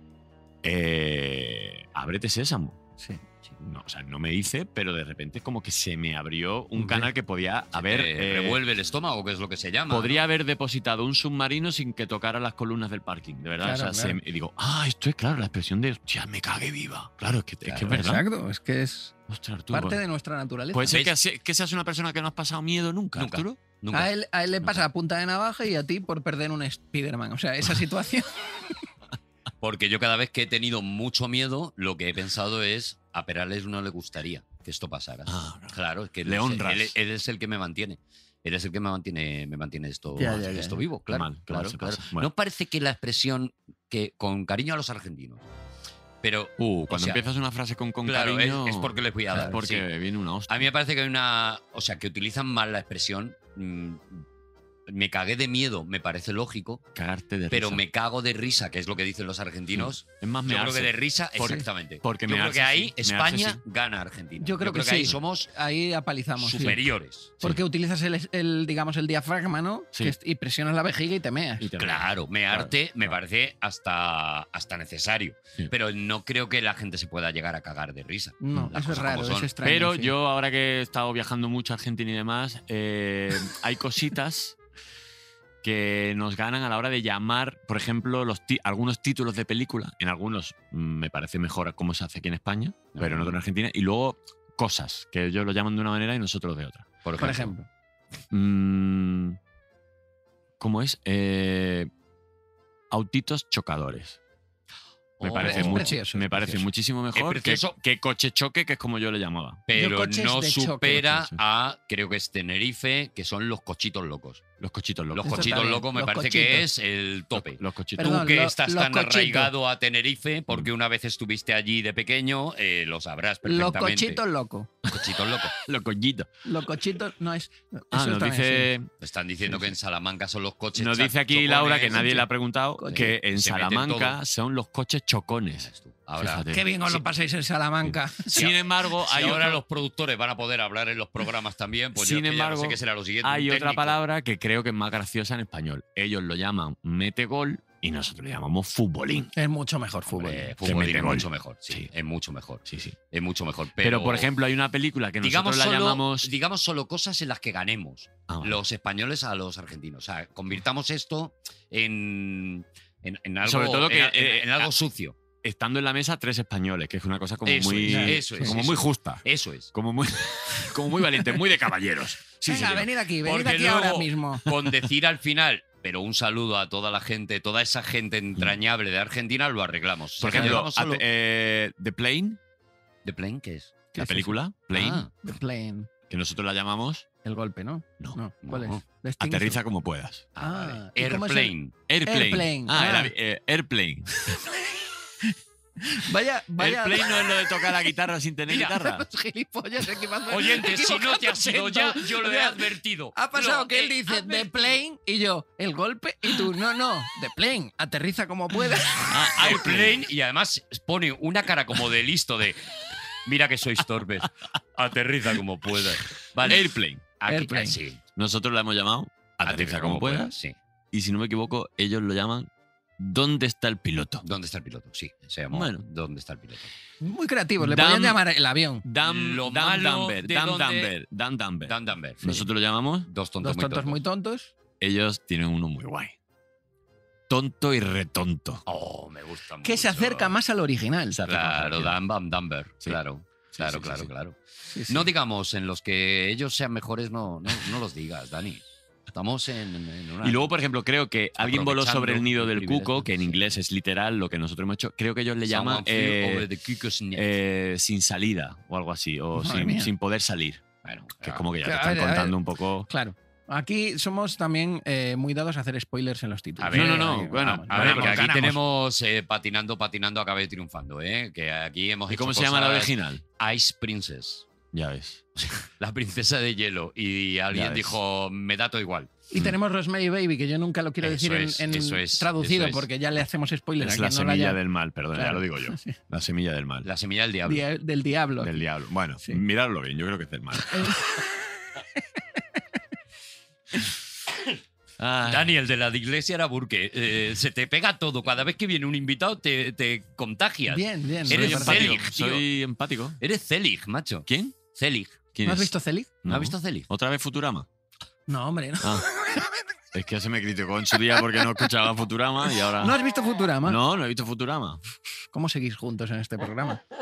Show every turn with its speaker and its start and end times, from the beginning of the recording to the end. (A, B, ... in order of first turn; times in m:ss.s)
0:00.6-0:02.8 A
0:03.6-0:08.6 A
0:06.8-0:07.1 B
0:07.7-0:10.2 C
0:09.9-0:18.2 A
0:13.6-0:14.2 B
0:17.6-0:18.0 C
0:17.9-0:19.2 B
0:19.3-0:20.0 A
0:19.7-0:20.9 B
0:20.7-0:23.6 A
0:20.9-0:21.1 C
0:23.2-0:24.1 C
0:23.9-0:28.8 B
0:29.6-0:45.4 C
0:35.3-0:36.9 A
0:40.2-0:40.8 B
0:41.1-0:42.3 A
0:46.2-0:47.2 C
0:46.6-0:50.7 A
0:48.0-0:49.9 C
0:50.5-0:54.2 C
0:54.9-0:56.8 C
0:56.9-0:57.8 A
0:57.5-1:05.5 C
0:59.7-1:03.6 A
1:04.4-1:06.8 B
1:06.4-1:07.4 C
1:07.4-1:11.7 B
1:11.6-1:13.2 A
1:11.8-1:19.5 C
1:18.4-1:20.1 B
1:19.6-1:24.6 A
1:25.6-1:37.4 A
1:32.9-1:33.3 C
1:37.0-1:37.5 C
1:37.2-1:37.7 B
1:38.3-1:39.4 A
1:40.6-1:41.9 A
1:42.9-1:44.2 A
1:45.2-1:45.9 C
1:45.2-1:49.6 A
1:45.4-1:46.6 B
1:47.1-1:47.8 C
1:49.7-1:54.4 C
1:49.7-1:51.0 B
1:51.0-1:51.4 A
1:54.6-1:55.6 A
1:55.1-2:04.2 C
1:55.2-1:56.7 B
1:57.3-1:58.2 A
1:58.0-1:59.5 B
2:03.4-2:04.7 B
2:04.8-2:06.3 A
2:04.9-2:05.6 C
2:06.4-2:08.7 B
2:07.9-2:08.9 A
2:09.0-2:12.2 C
2:10.7-2:17.0 A
2:11.9-2:12.2 B
2:12.8-2:13.1 B
2:12.9-2:14.2 C
2:15.6-2:16.4 C
2:16.5-2:18.3 B
2:17.8-2:19.6 A
2:18.3-2:24.0 C
2:22.0-2:29.3 A
2:29.4-2:30.5 B
2:30.1-2:34.3 C
2:30.6-2:31.9 A
2:32.6-2:33.0 A
2:33.8-2:36.3 A
2:35.2-2:45.2 C
2:38.3-2:38.6 A
2:43.4-2:44.7 A
2:45.4-2:52.9 A
2:47.4-2:49.7 C
2:47.8-2:48.5 B
2:52.4-2:54.5 B
2:53.2-3:01.0 C
3:00.2-3:02.4 A
3:00.3-3:00.6 B
3:03.0-3:03.8 C
3:03.9-3:04.4 B
3:04.0-3:05.0 A
3:04.7-3:05.1 C
3:05.2-3:05.9 B
3:06.1-3:07.0 A
3:07.2-3:09.6 B
3:08.4-3:08.8 C
3:09.2-3:10.3 A
3:10.3-3:11.8 C
3:10.4-3:11.5 B
3:11.9-3:14.3 A
3:12.0-3:13.1 B
3:14.1-3:17.9 B
3:16.6-3:19.0 A
3:18.5-3:29.2 B
3:20.2-3:24.8 C
3:29.1-3:30.1 A
3:29.3-3:38.0 C
3:36.4-3:37.0 A
3:37.3-3:37.8 B
3:38.2-3:40.3 A
3:39.4-3:40.5 C
3:40.9-3:44.2 A
3:44.2-3:46.7 C
3:45.5-3:45.8 A
3:47.0-3:48.8 B
3:47.6-3:48.2 A
3:48.8-3:53.1 A
3:49.0-3:50.9 C
3:51.6-3:52.5 C
3:53.1-3:54.0 C
3:53.4-3:54.5 B
3:54.8-3:56.1 A
3:57.3-3:58.6 A
3:58.6-4:00.3 C
3:59.6-4:01.2 B
4:01.1-4:02.0 A
4:01.3-4:10.5 C
4:03.5-4:04.1 A
4:04.7-4:05.1 B
4:10.2-4:16.5 A
4:11.4-4:13.6 C
4:15.4-4:17.3 C
4:17.1-4:20.6 A
4:19.4-4:19.9 B
4:20.8-4:21.4 C
4:21.2-4:22.9 A
4:21.6-4:28.2 B
4:26.6-4:34.5 C
4:26.7-4:28.6 A
4:32.1-4:33.2 A
4:34.7-4:35.2 A
4:35.4-4:39.3 C
4:37.5-4:38.0 A
4:39.3-4:44.6 B
4:41.0-4:42.9 C
4:43.8-4:46.9 A
4:45.1-4:46.0 B
4:46.8-4:47.6 C
4:47.4-4:48.6 B
4:48.4-4:51.0 A
4:50.7-4:51.5 B
4:52.0-4:52.6 B
4:55.0-4:55.6 A
4:55.2-5:02.4 C
5:00.7-5:02.0 B
5:01.3-5:03.2 A
5:03.2-5:05.3 C
5:04.3-5:04.6 A
5:05.3-5:05.7 A
5:05.4-5:06.1 B
5:06.2-5:07.7 A
5:06.3-5:06.9 C
5:08.3-5:09.6 B
5:09.9-5:13.0 A
5:11.1-5:11.7 B
5:12.8-5:13.8 B
5:13.6-5:14.8 A
5:15.3-5:16.8 B